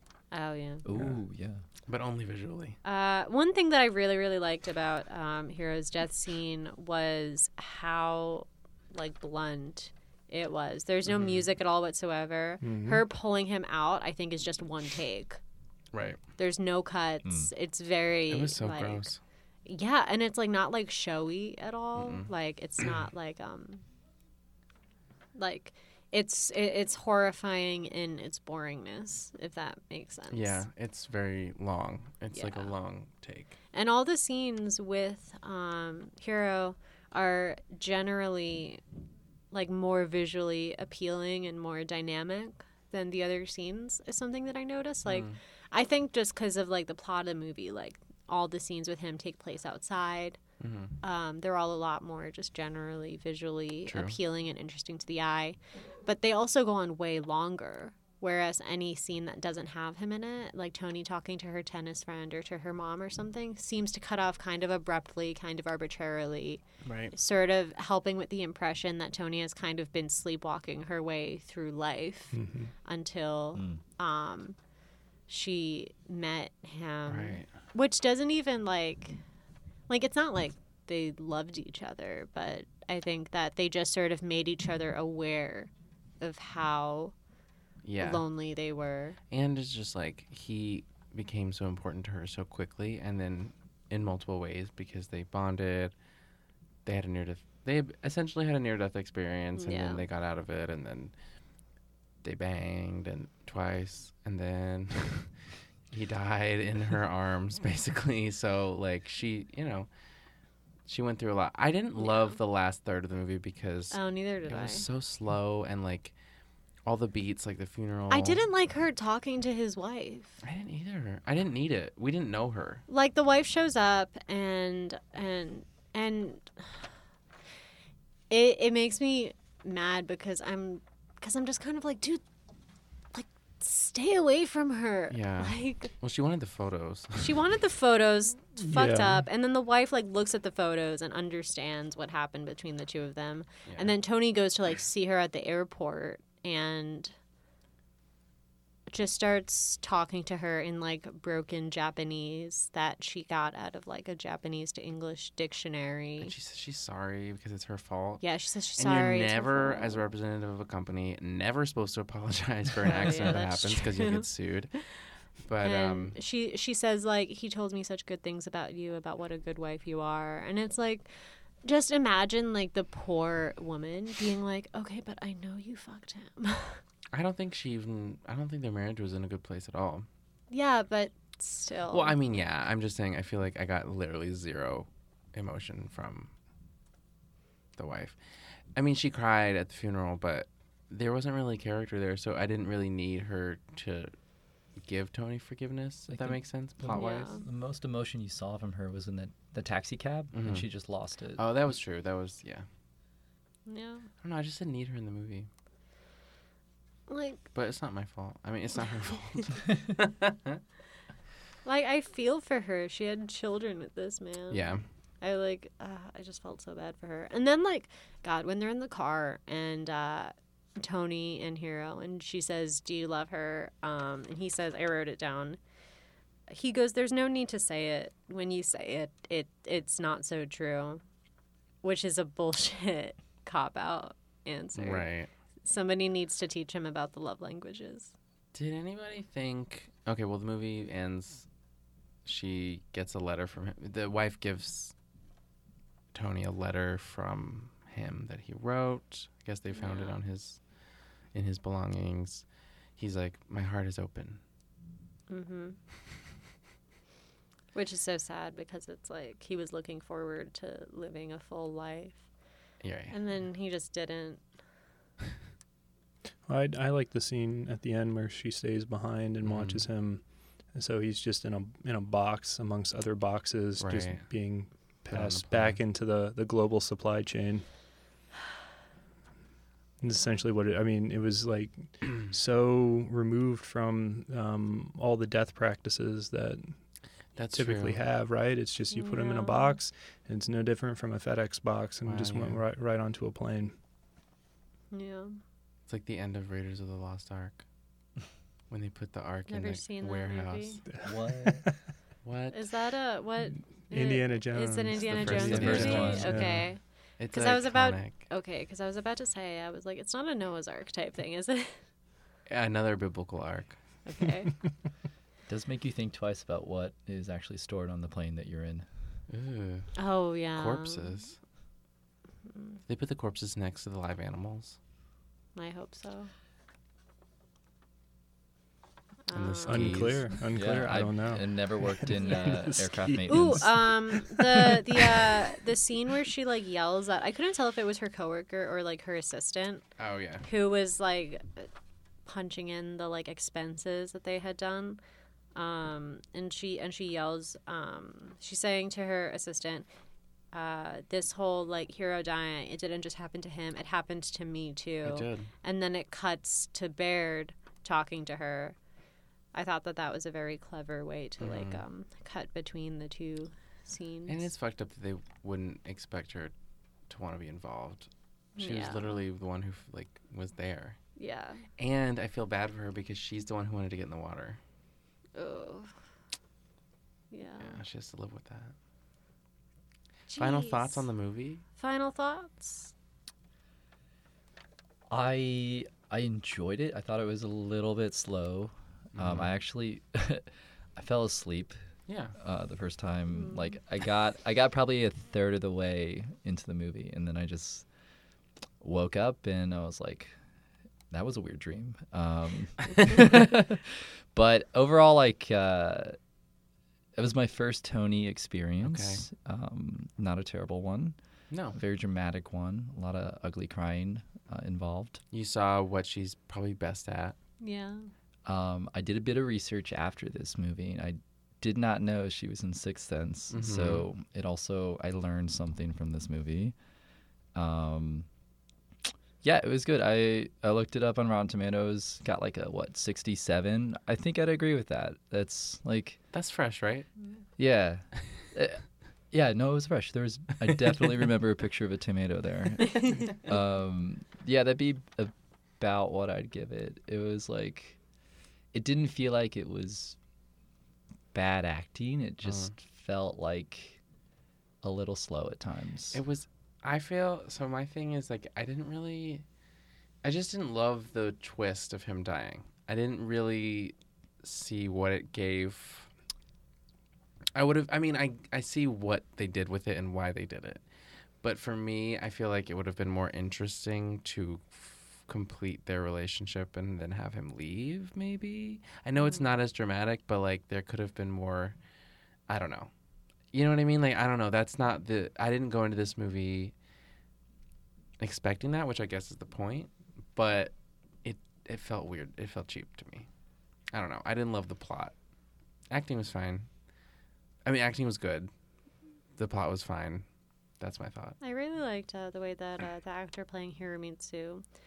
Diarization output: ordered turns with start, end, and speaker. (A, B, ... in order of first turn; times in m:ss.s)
0:00.3-0:00.8 A
0:00.8-0:01.6 B
0:01.9-0:02.8 C
0:02.8-0:15.4 A
0:11.1-0:11.4 C
0:12.6-0:13.0 D
0:15.9-0:16.2 C
0:16.4-0:19.1 A
0:18.3-0:19.2 C
0:19.6-0:23.8 A
0:22.0-0:22.3 C
0:25.4-0:30.6 A
0:30.3-0:33.6 C
0:32.3-0:32.7 A
0:33.7-0:38.8 A
0:39.5-0:50.4 A
0:45.0-0:45.4 C
0:50.6-0:50.9 C
0:51.0-1:06.6 A
0:53.9-0:54.2 C
1:06.8-1:07.1 C
1:07.1-1:14.6 A
1:12.3-1:12.7 D
1:13.6-1:13.8 B
1:15.3-1:19.2 A
1:17.1-1:17.5 C
1:19.9-1:25.7 A
1:26.2-1:27.1 A
1:27.8-1:28.2 C
1:28.0-1:29.2 A
1:29.3-1:35.9 C
1:36.8-1:41.1 C
1:39.6-1:40.0 A
1:42.2-1:45.3 C
1:45.9-1:49.9 C
1:50.9-1:56.1 C
1:52.0-1:52.4 A
1:53.9-1:54.9 A
1:56.8-1:58.4 C
1:58.1-2:00.4 A
2:00.4-2:02.8 C
2:02.9-2:06.9 A
2:08.3-2:12.2 A
2:13.1-2:15.9 A
2:15.1-2:17.4 C
2:17.2-2:27.1 A
2:18.6-2:19.2 D
2:23.7-2:23.9 C
2:28.9-2:36.3 A
2:36.2-2:38.2 C
2:38.2-2:40.0 A
2:38.8-2:44.8 C
2:42.8-2:44.3 A
2:45.4-2:46.2 C
2:45.6-2:51.1 A
2:51.6-2:56.8 A
2:57.1-3:00.1 C
3:00.5-3:02.2 A
3:01.9-3:06.3 C
3:07.8-3:08.2 C
3:08.7-3:14.1 C
3:14.8-3:17.2 C
3:16.1-3:21.4 B
3:16.9-3:17.4 A
3:20.3-3:20.7 C
3:21.4-3:22.6 C
3:23.7-3:24.1 A
3:24.2-3:25.5 C
3:27.1-3:27.4 A
3:27.5-3:30.6 C
3:31.6-3:34.7 A
3:34.5-3:34.8 C
3:35.2-3:45.6 A
3:46.5-3:51.0 A
3:51.8-3:55.1 A
3:54.8-3:55.3 C
3:55.6-3:58.1 A
3:58.5-4:01.5 C
4:02.2-4:04.9 C
4:06.1-4:10.6 C
4:09.7-4:10.2 A
4:11.3-4:12.4 C
4:13.0-4:14.4 C
4:15.3-4:15.8 A
4:17.7-4:22.2 A
4:22.8-4:23.1 C
4:23.1-4:24.4 A
4:26.5-4:30.2 D
4:29.4-4:29.9 C
4:30.7-4:37.6 D
4:33.8-4:34.3 C
4:35.1-4:35.8 C
4:40.0-4:46.7 D
4:47.4-4:48.0 C
4:47.5-4:53.7 D
4:48.9-4:49.8 A
4:52.0-4:52.6 C
4:54.9-4:55.4 A
4:55.9-4:57.6 C
4:58.7-5:00.8 C
4:59.5-5:00.8 A
5:00.9-5:01.7 D
5:01.0-5:01.6 B
5:02.2-5:02.7 C
5:02.5-5:11.8 A
5:03.9-5:06.6 D
5:05.0-5:06.7 C
5:05.3-5:06.4 B
5:07.2-5:08.2 C
5:12.5-5:13.8 C
5:14.0-5:14.6 A
5:15.5-5:18.9 B
5:19.3-5:20.0 C
5:20.0-5:21.2 A
5:20.5-5:21.4 C
5:22.9-5:24.8 C
5:25.6-5:26.3 A
5:29.3-5:30.1 A
5:29.3-5:30.3 C
5:29.7-5:35.0 D
5:30.5-5:33.7 B
5:33.3-5:39.8 A
5:40.0-5:40.4 C
5:40.4-5:41.7 A
5:42.3-5:45.0 A
5:45.6-5:49.9 A
5:50.5-5:58.8 A
5:55.0-5:55.5 C
5:59.5-6:04.5 A
6:01.4-6:01.8 C
6:04.3-6:06.5 C
6:07.1-6:11.0 C
6:08.6-6:09.1 A
6:11.2-6:11.6 A
6:11.8-6:14.6 C
6:15.3-6:15.9 A
6:17.3-6:17.8 A
6:17.6-6:18.7 C
6:20.3-6:21.1 A
6:20.4-6:21.6 C
6:21.8-6:22.9 A
6:25.1-6:31.8 B
6:29.1-6:29.5 C
6:32.1-6:32.3 C
6:32.4-6:37.9 B
6:33.4-6:33.7 A
6:38.8-6:40.3 B
6:41.1-6:46.2 B
6:47.2-6:51.2 B
6:48.8-6:49.2 C
6:51.5-6:51.8 C
6:51.7-6:55.2 B
6:55.3-6:57.4 C
6:57.6-6:58.1 A
6:58.4-7:06.8 B
7:03.5-7:04.0 C
7:07.5-7:08.3 B
7:09.4-7:16.2 B
7:16.3-7:17.1 C
7:17.6-7:28.0 B
7:28.7-7:30.2 B
7:31.3-7:34.0 B
7:32.5-7:32.7 C
7:34.8-7:36.2 B
7:36.1-7:39.4 C
7:40.2-7:46.1 C
7:47.6-7:50.8 C
7:51.4-8:01.8 C
8:02.5-8:02.9 C
8:03.5-8:06.7 C
8:08.2-8:13.3 C
8:13.9-8:15.1 C
8:15.9-8:16.7 C
8:17.6-8:18.5 C
8:19.4-8:20.2 C
8:20.8-8:21.4 C
8:21.4-8:24.6 A